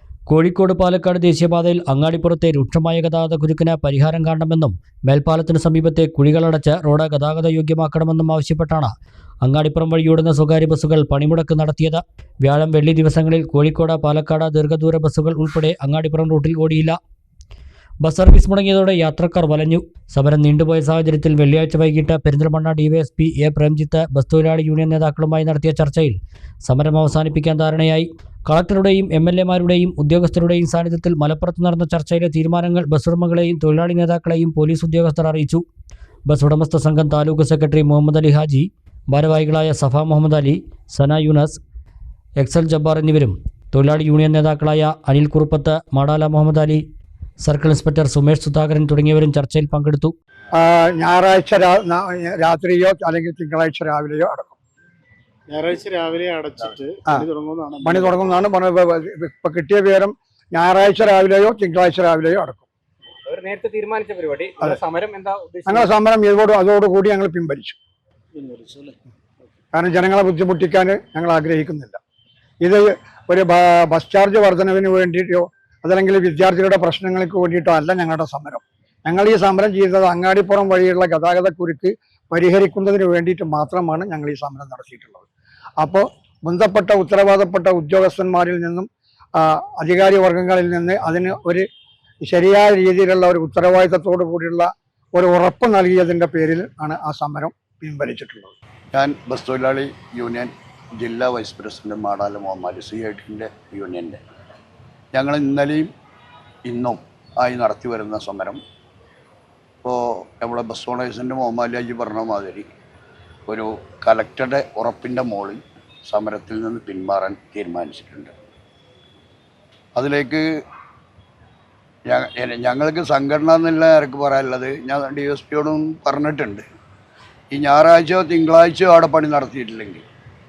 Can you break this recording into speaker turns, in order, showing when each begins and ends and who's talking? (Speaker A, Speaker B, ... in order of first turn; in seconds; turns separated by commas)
Speaker A: 0.3-17.0, Speaker A: 18.0-35.6, Speaker A: 36.3-41.6, Speaker A: 42.4-46.8, Speaker A: 47.4-50.1, Speaker B: 50.5-54.5, Speaker C: 55.5-58.4, Speaker B: 57.8-62.7, Speaker D: 63.3-65.9, Speaker B: 65.7-67.8, Speaker C: 68.3-69.0, Speaker B: 69.7-72.0, Speaker B: 72.6-85.3, Speaker B: 85.8-91.7, Speaker B: 92.2-98.5, Speaker E: 98.9-104.2, Speaker E: 105.1-105.9, Speaker E: 106.7-108.6, Speaker E: 109.8-112.7, Speaker E: 113.5-118.3, Speaker E: 120.0-120.4, Speaker E: 122.1-126.7, Speaker E: 127.5-130.0